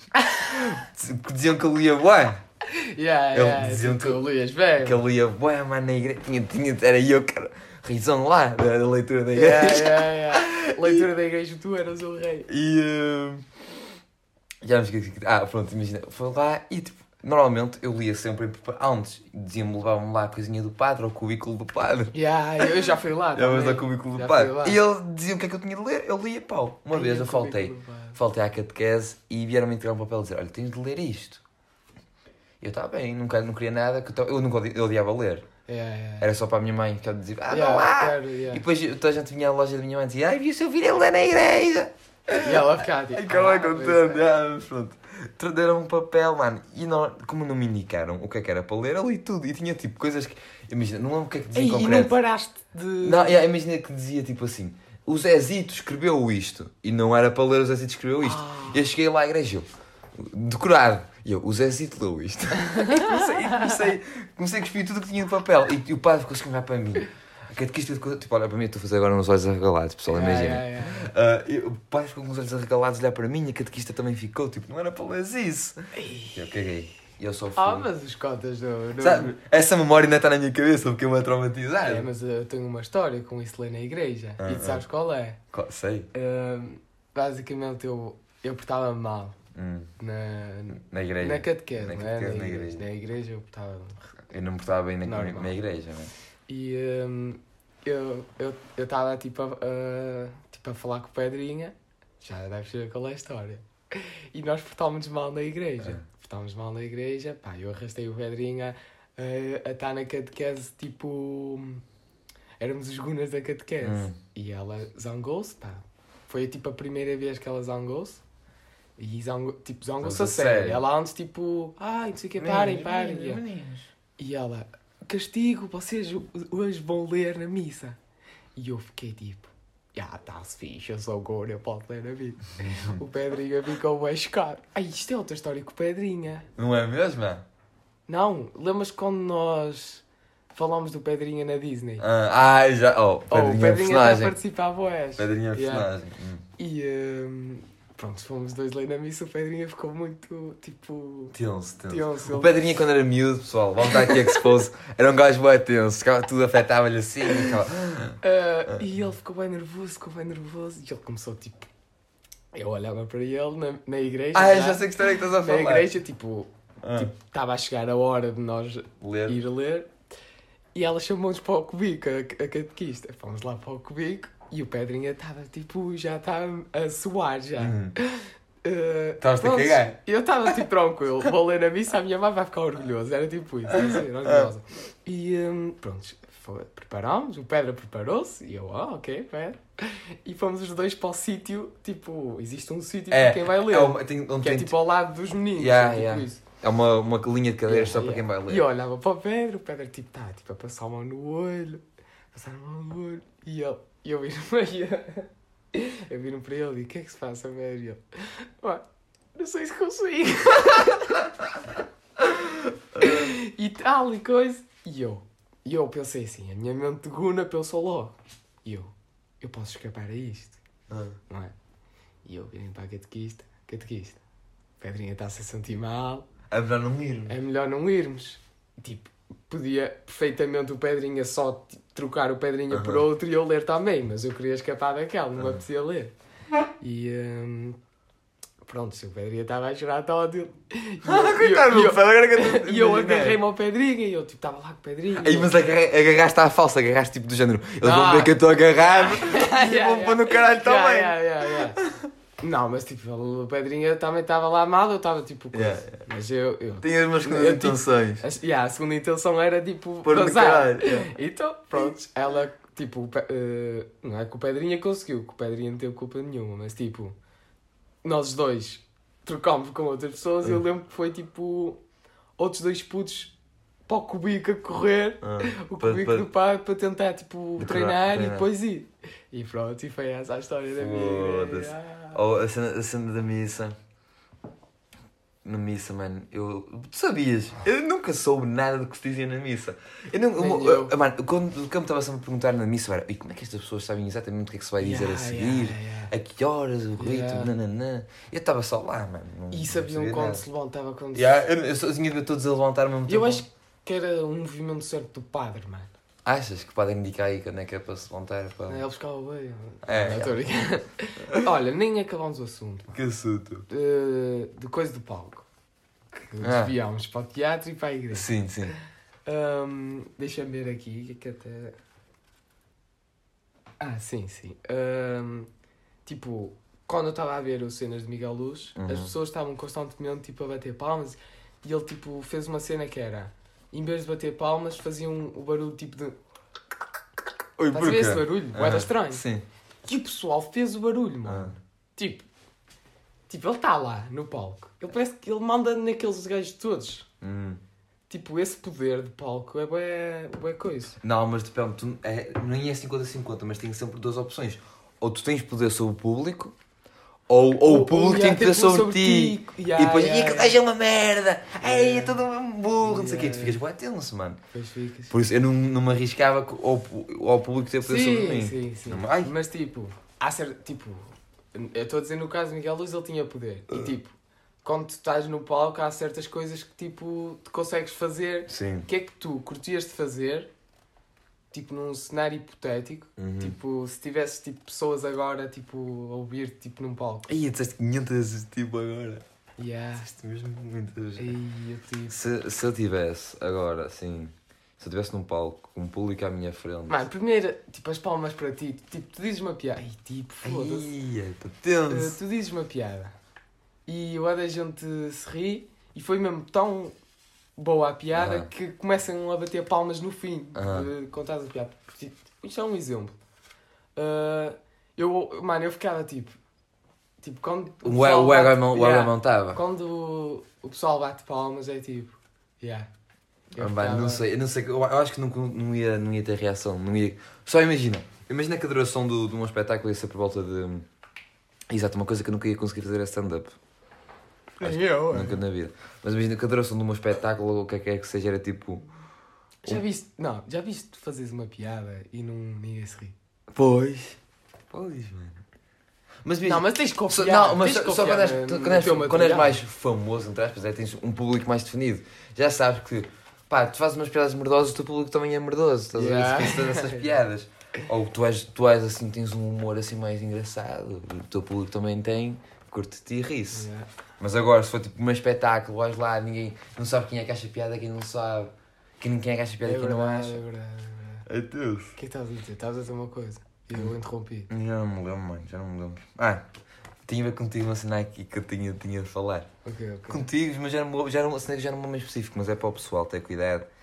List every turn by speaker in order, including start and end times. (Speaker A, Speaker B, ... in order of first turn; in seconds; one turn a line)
Speaker A: 0.2-0.6
Speaker B: 0.5-2.4
Speaker A: 2.6-5.0
Speaker B: 3.3-4.2
Speaker B: 4.8-11.1
Speaker A: 9.3-12.5
Speaker B: 12.5-13.5
Speaker B: 14.6-22.8
Speaker A: 22.1-24.8
Speaker B: 23.4-31.4
Speaker A: 26.9-28.2
Speaker B: 32.6-35.5
Speaker A: 35.6-36.3
Speaker B: 36.2-52.1
Speaker A: 37.5-38.6
Speaker A: 42.3-44.2
Speaker A: 51.5-53.5
Speaker B: 53.0-77.9
Speaker A: 58.2-58.8
Speaker A: 62.6-63.8
Speaker A: 70.1-71.1
Speaker A: 75.9-76.4
Speaker A: 77.5-79.3
Speaker B: 79.0-82.1
Speaker A: 81.8-85.4
Speaker B: 84.4-84.8
Speaker B: 85.5-86.1
Speaker A: 86.1-89.4
Speaker B: 89.5-89.9
Speaker A: 90.0-94.1
Speaker B: 90.8-92.8
Speaker B: 94.3-96.1
Speaker A: 95.0-95.6
Speaker A: 96.5-111.8
Speaker A: 112.6-118.2
Speaker B: 113.8-114.2
Speaker A: 119.0-123.4
Speaker B: 120.0-120.8
Speaker B: 122.4-123.9
Speaker A: 124.2-128.0
Speaker A: 128.6-136.5
Speaker B: 132.6-133.0
Speaker B: 136.6-137.4
Speaker A: 138.1-142.1
Speaker B: 142.0-144.4
Speaker A: 143.3-145.9
Speaker B: 145.2-146.4
Speaker A: 146.6-151.4
Speaker B: 151.3-158.8
Speaker A: 151.9-152.6
Speaker A: 153.8-154.4
Speaker A: 158.2-161.7
Speaker A: 162.5-169.9
Speaker B: 164.3-165.9
Speaker B: 166.8-167.1
Speaker B: 169.0-169.4
Speaker A: 170.8-196.4
Speaker B: 177.6-177.9
Speaker B: 179.2-180.0
Speaker B: 183.7-184.5
Speaker B: 193.1-194.8
Speaker B: 195.6-198.7
Speaker A: 197.7-211.3
Speaker B: 212.9-213.3
Speaker A: 213.0-220.6
Speaker B: 220.9-221.2
Speaker A: 222.2-224.2
Speaker A: 224.8-226.3
Speaker B: 226.5-227.3
Speaker A: 227.3-236.1
Speaker B: 232.7-233.1
Speaker A: 236.8-237.8
Speaker A: 238.6-245.6
Speaker B: 241.0-243.4
Speaker B: 245.1-252.1
Speaker A: 247.8-248.4
Speaker A: 248.9-251.8
Speaker A: 252.4-267.1
Speaker B: 255.5-256.0
Speaker B: 256.8-258.2
Speaker B: 260.0-261.1
Speaker A: 268.0-271.8
Speaker A: 272.4-273.4
Speaker A: 273.9-282.2
Speaker B: 275.2-276.3
Speaker B: 277.6-278.5
Speaker B: 280.8-283.8
Speaker B: 285.4-300.4
Speaker A: 290.4-290.9
Speaker A: 294.8-296.1
Speaker A: 297.0-297.5
Speaker A: 299.5-301.5
Speaker B: 301.1-303.4
Speaker A: 303.1-305.9
Speaker B: 306.2-308.8
Speaker A: 308.7-313.0
Speaker B: 309.8-310.4
Speaker B: 312.9-313.6
Speaker A: 313.7-315.4
Speaker A: 316.1-321.8
Speaker B: 316.4-316.7
Speaker B: 318.1-318.8
Speaker A: 323.8-325.5
Speaker A: 326.1-336.1
Speaker B: 328.8-329.1
Speaker B: 337.6-339.4
Speaker A: 337.7-339.2
Speaker A: 339.9-342.3
Speaker B: 341.3-341.6
Speaker A: 343.3-347.1
Speaker B: 347.2-347.6
Speaker A: 348.1-351.0
Speaker B: 351.0-356.6
Speaker B: 357.3-364.4
Speaker A: 357.6-360.6
Speaker A: 361.6-362.2
Speaker A: 362.8-363.6
Speaker A: 364.5-365.1
Speaker B: 365.1-369.3
Speaker A: 367.9-380.5
Speaker B: 378.5-378.9
Speaker A: 381.5-387.3
Speaker B: 383.2-383.6
Speaker B: 387.3-389.2
Speaker A: 389.6-390.1
Speaker B: 390.0-391.4
Speaker A: 391.2-392.2
Speaker B: 392.1-397.0
Speaker A: 396.9-400.9
Speaker B: 400.4-402.1
Speaker A: 401.9-403.1
Speaker A: 403.9-406.9
Speaker A: 407.6-413.2
Speaker B: 408.1-408.5
Speaker B: 410.6-410.9
Speaker A: 413.9-416.4
Speaker A: 417.2-422.9
Speaker B: 417.8-419.6
Speaker A: 423.5-424.2
Speaker B: 423.6-430.9
Speaker B: 431.7-433.6
Speaker A: 434.6-435.4
Speaker B: 434.6-438.9
Speaker A: 439.6-443.1
Speaker B: 443.5-444.2
Speaker B: 444.7-445.4
Speaker B: 446.2-463.7
Speaker A: 446.4-449.6
Speaker A: 455.9-457.1
Speaker A: 463.5-463.9
Speaker B: 464.2-470.4
Speaker A: 469.6-471.3
Speaker B: 471.3-471.9
Speaker A: 472.0-474.5
Speaker B: 474.5-476.4
Speaker B: 477.1-479.5
Speaker A: 479.6-480.3
Speaker B: 480.1-483.7